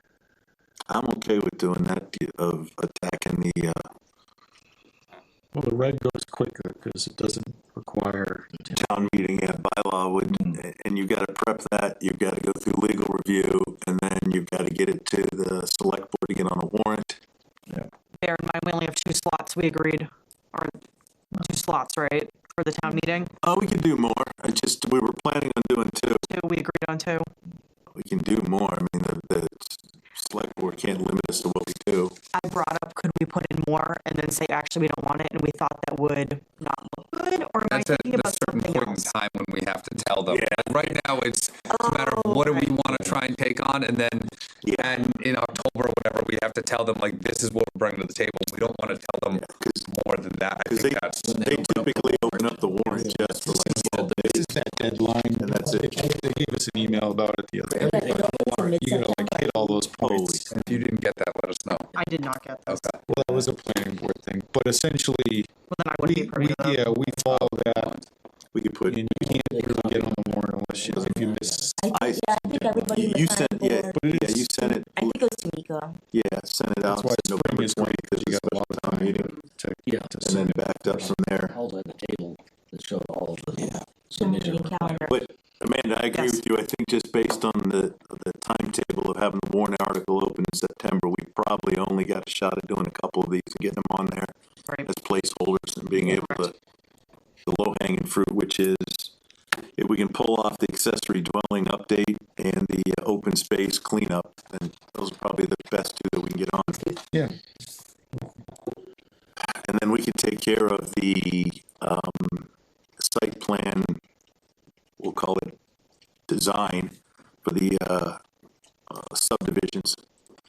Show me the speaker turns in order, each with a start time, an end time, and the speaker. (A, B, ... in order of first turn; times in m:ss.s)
0:00.9-0:03.9 A
0:05.5-0:08.6 B
0:08.7-0:17.2 A
0:18.2-0:20.8 C
0:21.4-0:23.3 C
0:23.4-0:26.2 A
0:26.2-0:27.3 C
0:27.9-0:32.2 A
0:32.3-0:39.1 C
0:37.7-0:51.8 D
0:40.3-0:41.0 A
0:41.7-0:43.0 C
0:44.6-0:45.0 A
0:49.4-0:49.8 A
0:50.6-0:54.5 A
0:51.2-0:52.6 E
0:52.9-1:00.5 B
0:55.4-0:56.0 A
0:57.7-0:59.9 F
0:57.8-0:58.6 E
1:00.0-1:00.5 A
1:00.5-1:01.9 D
1:01.9-1:02.9 C
1:02.7-1:03.0 D
1:03.1-1:05.5 B
1:05.7-1:06.9 C
1:06.0-1:07.9 B
1:07.2-1:08.1 D
1:08.5-1:09.0 A
1:08.9-1:11.8 B
1:09.1-1:11.7 E
1:11.8-1:16.0 F
1:11.9-1:15.2 A
1:13.9-1:14.5 B
1:16.1-1:19.3 A
1:16.8-1:20.6 B
1:19.8-1:25.1 E
1:20.2-1:21.6 A
1:24.1-1:25.2 F
1:25.1-1:34.3 A
1:26.1-1:26.4 C
1:34.8-1:36.5 A
1:36.0-1:36.5 C
1:37.4-1:39.1 A
1:39.8-1:46.9 A
1:49.5-1:54.0 A
1:55.0-1:55.6 A
1:56.3-1:58.2 A
1:58.9-2:00.0 A